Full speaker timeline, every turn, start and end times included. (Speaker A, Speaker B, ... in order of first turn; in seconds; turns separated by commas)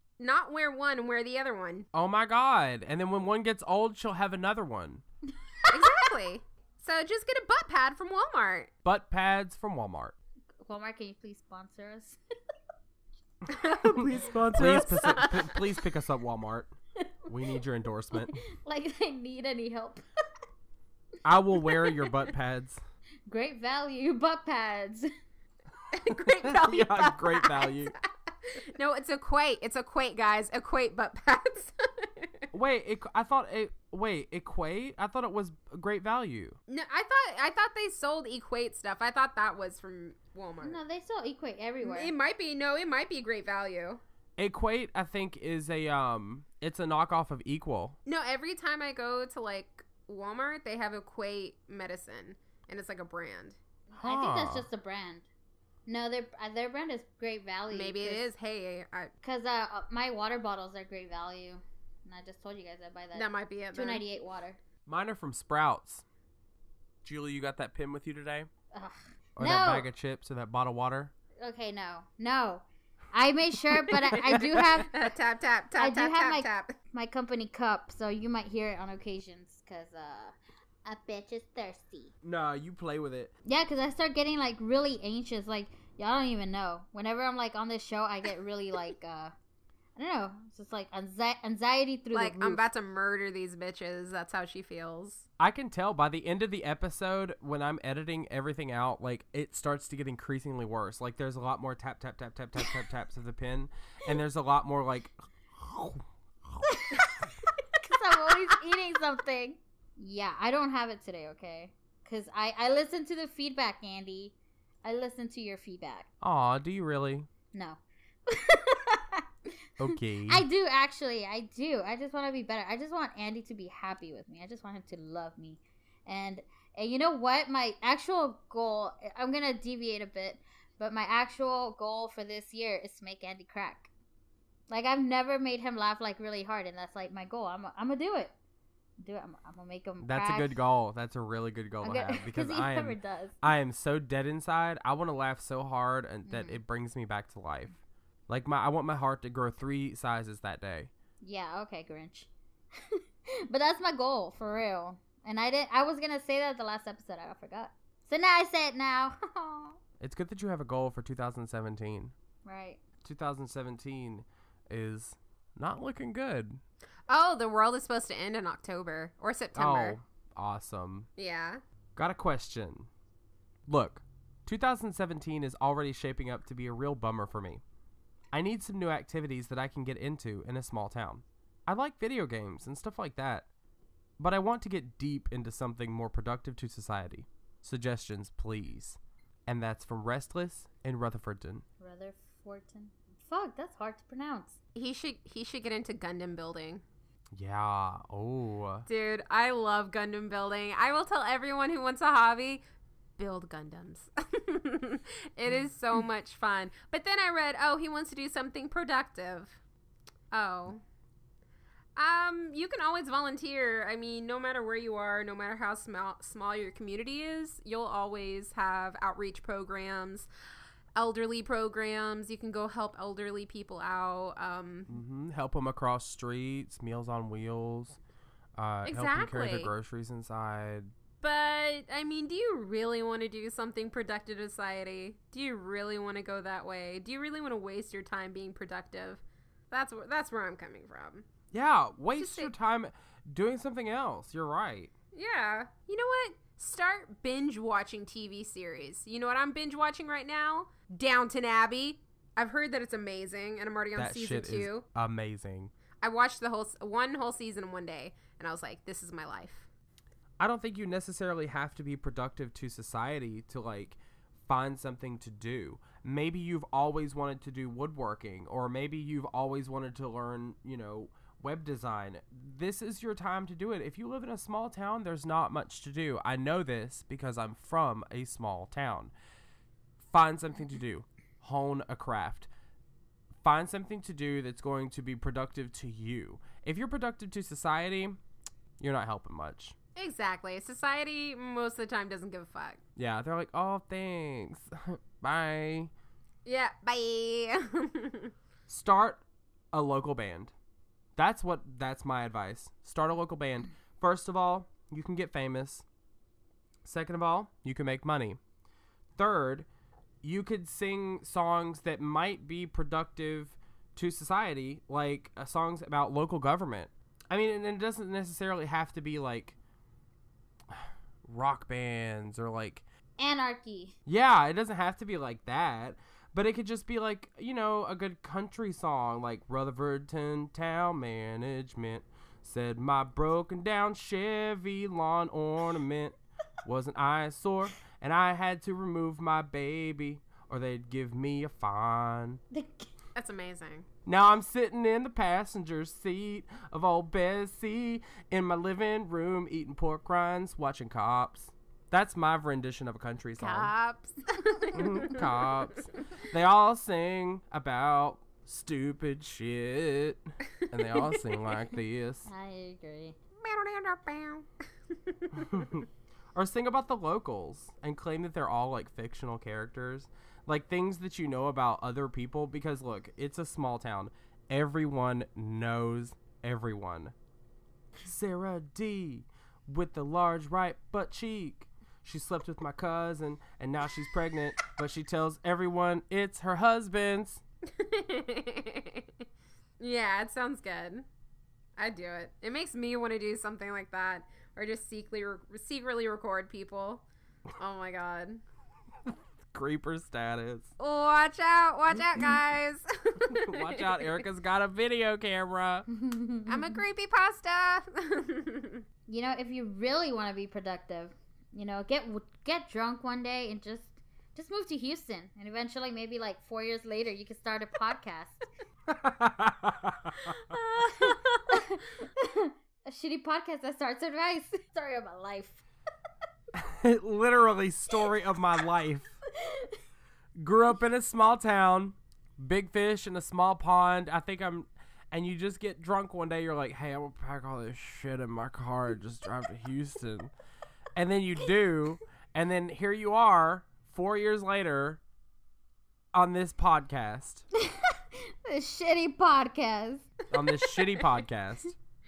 Speaker A: 0.2-1.9, Speaker B: 1.9-5.0, Speaker C: 5.7-5.9, Speaker A: 5.7-8.7, Speaker B: 8.8-10.2, Speaker C: 10.6-12.2, Speaker A: 13.5-15.6, Speaker B: 14.1-16.7, Speaker B: 17.3-18.4, Speaker C: 18.3-20.0, Speaker B: 21.2-22.8, Speaker C: 23.3-25.1, Speaker A: 25.9-28.1, Speaker B: 26.1-27.9, Speaker A: 28.6-32.3, Speaker B: 32.5-36.6, Speaker A: 36.7-40.8, Speaker C: 40.6-42.1, Speaker A: 41.8-44.0, Speaker B: 44.4-48.0, Speaker A: 48.1-53.6, Speaker C: 53.9-55.2, Speaker B: 54.0-54.7, Speaker C: 55.9-58.3, Speaker A: 57.7-59.1, Speaker C: 59.2-64.6, Speaker A: 63.1-64.0, Speaker B: 64.9-66.0, Speaker B: 67.0-68.5, Speaker C: 68.7-69.9, Speaker B: 69.4-71.1, Speaker C: 71.4-75.1, Speaker A: 74.3-76.7, Speaker C: 75.8-80.3, Speaker C: 80.8-82.1, Speaker B: 82.2-83.3, Speaker C: 83.5-89.3, Speaker C: 90.0-92.6, Speaker A: 92.1-95.3, Speaker B: 95.4-106.0, Speaker C: 106.7-107.0, Speaker C: 107.8-116.1, Speaker B: 116.2-117.3, Speaker C: 117.5-119.2, Speaker B: 119.8-120.5, Speaker C: 120.3-133.9, Speaker C: 134.7-138.3, Speaker C: 139.0-140.6, Speaker B: 140.0-150.9, Speaker C: 141.8-143.4, Speaker C: 146.3-146.6, Speaker C: 151.2-159.8, Speaker B: 160.0-162.2, Speaker C: 162.4-162.8, Speaker B: 163.0-166.6, Speaker A: 167.1-170.0, Speaker B: 169.6-171.1, Speaker A: 171.2-171.6, Speaker B: 172.0-172.9, Speaker B: 173.7-177.6, Speaker B: 178.3-183.5, Speaker B: 184.2-191.6, Speaker C: 191.8-194.6, Speaker A: 194.8-196.8, Speaker B: 197.3-198.9, Speaker A: 198.9-202.7, Speaker A: 203.2-209.6, Speaker A: 210.3-210.8, Speaker A: 212.0-220.3, Speaker A: 220.9-224.9, Speaker B: 224.9-228.0, Speaker B: 228.6-230.9, Speaker A: 228.8-229.7, Speaker A: 231.2-241.3, Speaker B: 241.5-244.9, Speaker A: 242.2-242.5, Speaker A: 245.1-254.8, Speaker B: 254.0-255.7, Speaker A: 256.0-259.7, Speaker B: 260.4-279.1, Speaker B: 280.0-282.5, Speaker B: 283.4-288.2, Speaker B: 288.8-289.8, Speaker A: 290.0-292.8, Speaker B: 293.0-295.9, Speaker A: 296.4-298.3, Speaker B: 298.7-299.2, Speaker B: 299.7-300.5, Speaker B: 301.2-305.9, Speaker B: 306.8-308.4, Speaker B: 309.2-309.7, Speaker B: 310.2-319.6, Speaker B: 320.7-322.8, Speaker C: 323.2-324.0, Speaker B: 324.1-342.4, Speaker C: 342.5-342.9, Speaker A: 343.1-343.9, Speaker B: 344.1-353.7, Speaker A: 353.4-355.5, Speaker B: 354.7-362.3, Speaker C: 362.3-363.2, Speaker A: 363.4-364.5, Speaker A: 365.1-365.7, Speaker B: 365.4-377.1, Speaker B: 378.0-387.4, Speaker A: 387.7-389.1, Speaker A: 389.8-391.1, Speaker A: 391.8-397.1, Speaker A: 397.6-398.4, Speaker B: 399.1-400.7, Speaker A: 400.8-404.2, Speaker B: 403.3-405.9, Speaker C: 405.9-406.7, Speaker A: 406.5-408.8, Speaker C: 409.1-418.4, Speaker B: 418.9-420.3, Speaker A: 420.5-421.6, Speaker C: 421.0-425.6, Speaker B: 426.5-429.2, Speaker C: 429.3-429.8, Speaker B: 430.4-440.3, Speaker B: 440.9-445.0, Speaker B: 446.1-447.4, Speaker C: 447.6-450.1, Speaker B: 450.3-451.8